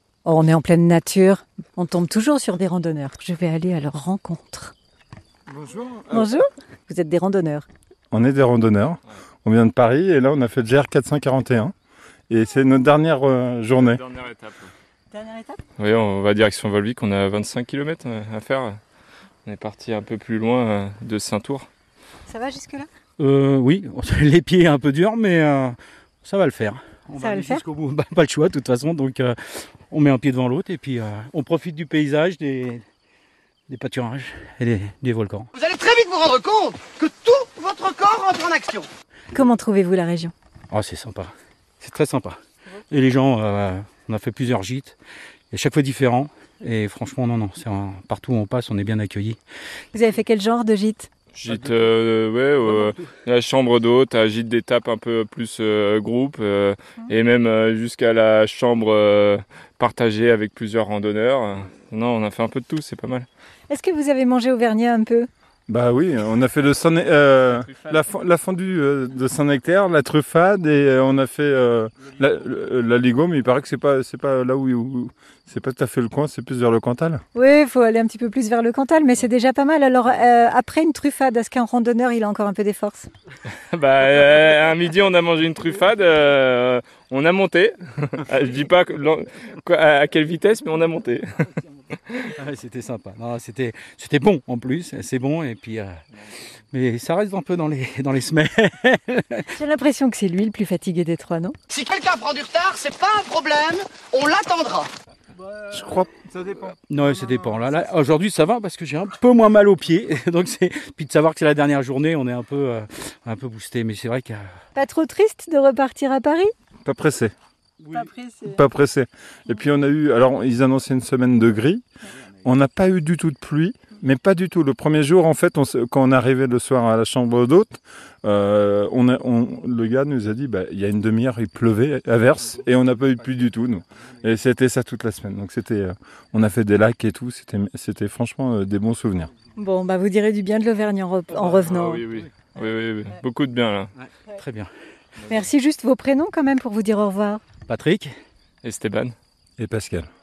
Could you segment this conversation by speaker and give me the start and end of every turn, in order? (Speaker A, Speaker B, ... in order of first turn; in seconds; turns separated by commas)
Speaker A: 0.2-4.7, Speaker B: 5.5-6.3, Speaker A: 6.1-7.7, Speaker B: 8.1-11.7, Speaker B: 12.3-14.0, Speaker C: 13.8-14.7, Speaker A: 15.1-15.6, Speaker C: 15.8-18.8, Speaker C: 19.4-21.7, Speaker A: 22.3-22.9, Speaker D: 23.2-29.4, Speaker A: 27.2-27.6, Speaker D: 29.9-32.8, Speaker D: 33.7-35.5, Speaker E: 35.5-38.9, Speaker A: 39.3-40.3, Speaker D: 40.7-42.4, Speaker D: 42.9-45.0, Speaker D: 45.5-49.4, Speaker A: 49.9-51.1, Speaker C: 51.3-63.3, Speaker A: 63.7-65.3, Speaker B: 65.7-77.2, Speaker A: 77.3-83.1, Speaker C: 83.7-92.2, Speaker D: 92.2-96.0, Speaker D: 96.7-99.5, Speaker A: 99.5-101.5, Speaker E: 101.7-104.9, Speaker B: 105.4-106.8, Speaker D: 106.9-114.4, Speaker A: 114.7-116.5, Speaker B: 116.8-117.3, Speaker A: 117.9-118.6, Speaker B: 118.4-121.8, Speaker B: 122.4-139.3, Speaker A: 139.6-142.0, Speaker C: 141.4-143.9, Speaker D: 144.3-144.7, Speaker A: 145.3-147.4, Speaker D: 147.7-148.1, Speaker C: 148.6-149.1, Speaker B: 149.6-150.1